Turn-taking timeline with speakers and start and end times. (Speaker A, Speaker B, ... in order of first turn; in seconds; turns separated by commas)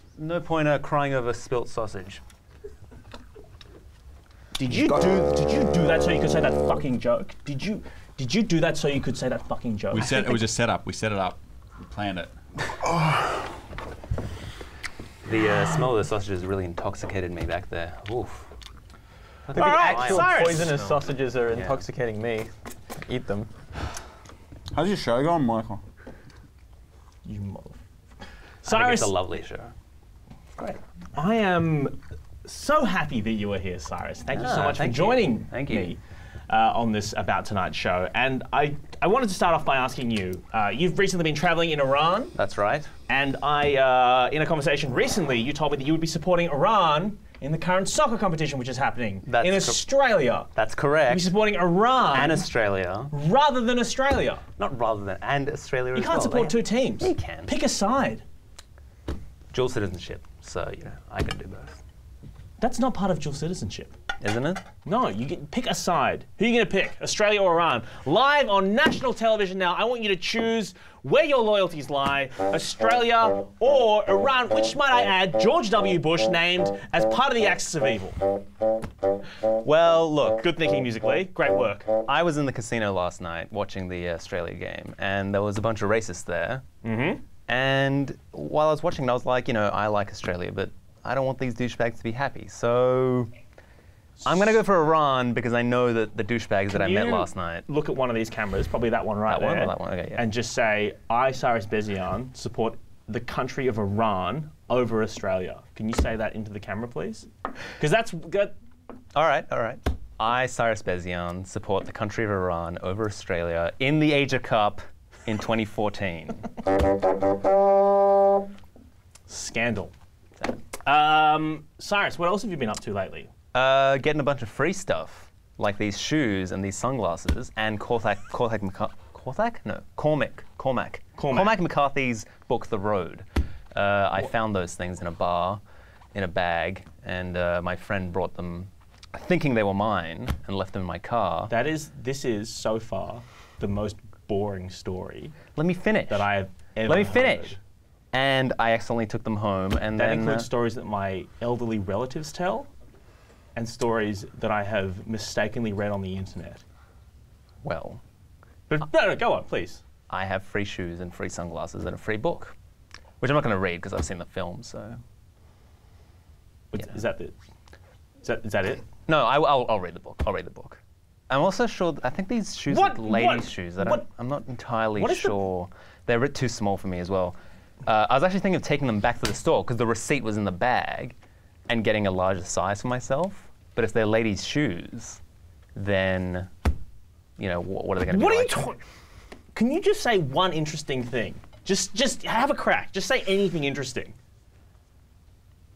Speaker A: 0.2-2.2, Speaker B: 4.5-10.3, Speaker C: 4.7-5.2, Speaker D: 9.9-12.3, Speaker C: 12.8-13.5, Speaker A: 15.2-18.5, Speaker A: 19.4-21.8, Speaker E: 19.5-22.5, Speaker B: 19.5-20.8, Speaker E: 23.0-23.5, Speaker C: 24.7-25.8, Speaker B: 27.2-27.8, Speaker B: 28.6-29.1, Speaker A: 28.6-29.7, Speaker B: 30.8-42.3, Speaker A: 34.3-35.9, Speaker A: 42.3-42.9, Speaker B: 43.1-50.5, Speaker A: 49.3-49.8, Speaker A: 50.5-51.3, Speaker B: 51.1-52.5, Speaker A: 52.1-53.1, Speaker B: 53.1-54.4, Speaker A: 54.6-57.5, Speaker B: 55.9-58.2, Speaker A: 59.5-61.8, Speaker B: 62.6-63.9, Speaker A: 64.2-64.6, Speaker B: 64.8-78.2, Speaker A: 79.6-80.4, Speaker B: 80.4-81.9, Speaker A: 82.0-86.6, Speaker B: 86.8-87.2, Speaker A: 87.5-93.3, Speaker A: 94.2-97.6, Speaker B: 96.7-108.5, Speaker A: 99.3-100.3, Speaker A: 109.1-116.5, Speaker B: 119.3-119.9, Speaker B: 120.8-123.3, Speaker A: 123.5-135.6, Speaker B: 131.2-131.6, Speaker A: 136.1-141.5, Speaker B: 141.5-145.4, Speaker A: 145.5-146.3, Speaker B: 146.1-147.6, Speaker A: 146.8-147.6, Speaker A: 148.1-150.5, Speaker B: 149.9-152.7, Speaker B: 153.5-156.6, Speaker A: 157.6-158.0, Speaker B: 158.7-159.8, Speaker A: 160.1-162.5, Speaker A: 163.2-165.0, Speaker B: 166.7-167.3, Speaker B: 168.2-168.8, Speaker A: 169.1-181.2, Speaker B: 172.7-174.1, Speaker B: 175.0-175.4, Speaker A: 181.7-185.2, Speaker A: 185.7-186.5, Speaker A: 187.4-188.7, Speaker B: 188.1-188.8, Speaker B: 189.5-194.1